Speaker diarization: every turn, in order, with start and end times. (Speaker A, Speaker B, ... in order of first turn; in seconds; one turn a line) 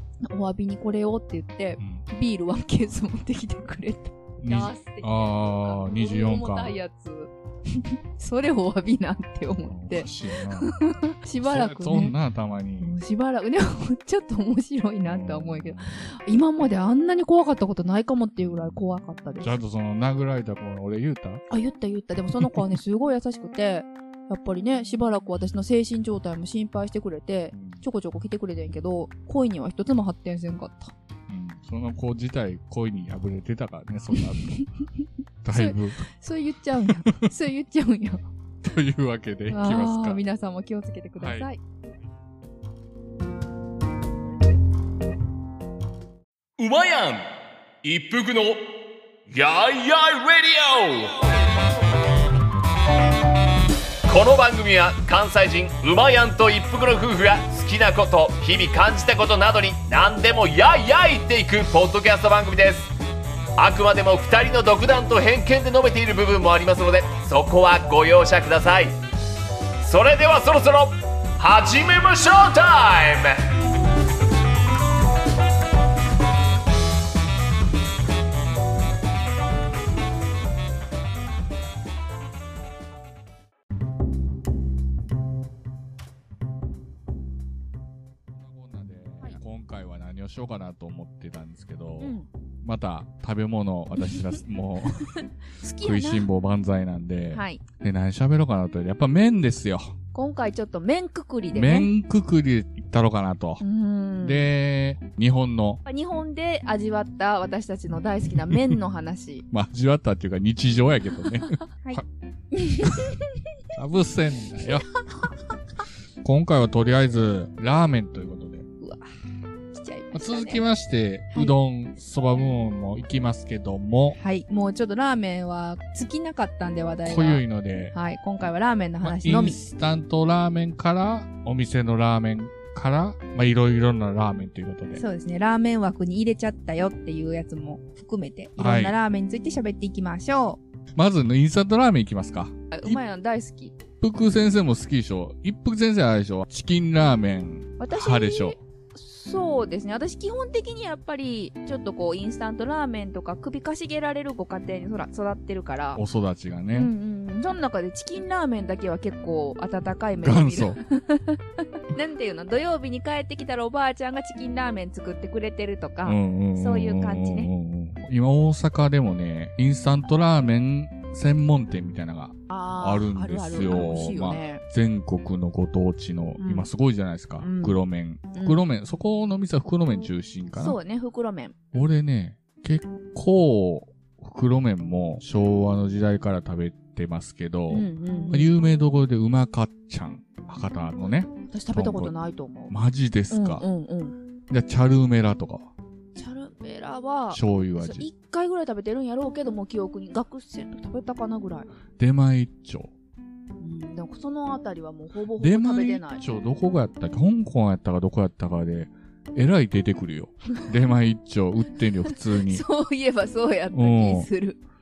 Speaker A: 0.2-12.2
Speaker B: 4.4-6.8
Speaker B: 9.7-10.8
Speaker B: 11.4-13.0
Speaker A: 12.8-19.5
Speaker B: 15.1-15.9
Speaker B: 18.4-18.8
Speaker B: 19.4-21.4
Speaker A: 21.5-30.9
Speaker B: 22.4-22.7
Speaker B: 27.5-27.8
Speaker B: 31.3-34.6
Speaker A: 34.1-34.7
Speaker B: 35.4-36.1
Speaker A: 35.5-38.2
Speaker B: 36.8-37.3
Speaker B: 38.6-40.2
Speaker A: 39.5-41.6
Speaker B: 41.2-41.5
Speaker C: 46.6-47.3
Speaker C: 47.8-48.7
Speaker C: 49.3-51.4
Speaker C: 54.1-62.9
Speaker C: 63.6-69.0
Speaker C: 69.8-73.4
Speaker B: 88.3-95.1
Speaker A: 92.0-92.3
Speaker A: 94.0-94.3
Speaker A: 95.0-96.3
Speaker B: 95.8-99.9
Speaker A: 97.3-97.6
Speaker A: 100.1-101.9
Speaker B: 101.5-103.6
Speaker A: 103.6-104.5
Speaker B: 104.2-105.8
Speaker A: 105.8-109.5
Speaker B: 108.5-108.8
Speaker B: 109.5-112.0
Speaker A: 111.5-113.4
Speaker B: 112.8-113.1
Speaker B: 113.7-114.9
Speaker B: 116.2-118.7
Speaker A: 118.8-119.1
Speaker A: 119.7-120.6
Speaker B: 120.1-124.2
Speaker A: 124.2-129.6
Speaker B: 127.0-128.0
Speaker B: 129.0-135.0
Speaker A: 134.9-140.6
Speaker B: 138.6-138.9
Speaker B: 140.9-143.0
Speaker A: 142.7-143.8
Speaker B: 144.0-148.6
Speaker A: 147.8-156.0
Speaker B: 155.9-156.9
Speaker A: 156.7-167.5
Speaker B: 160.2-160.8
Speaker B: 166.0-180.8
Speaker A: 172.5-174.6
Speaker A: 176.4-176.7
Speaker A: 177.4-177.8
Speaker A: 178.3-178.6
Speaker A: 180.6-181.6
Speaker B: 181.7-192.1
Speaker A: 187.7-188.5
Speaker A: 191.3-192.7
Speaker B: 192.7-193.7
Speaker A: 193.3-194.2
Speaker B: 194.5-195.7
Speaker A: 196.2-201.7
Speaker B: 197.3-198.1
Speaker B: 202.0-202.9
Speaker A: 203.6-206.2
Speaker B: 205.4-212.6
Speaker A: 212.3-214.6
Speaker B: 213.7-214.3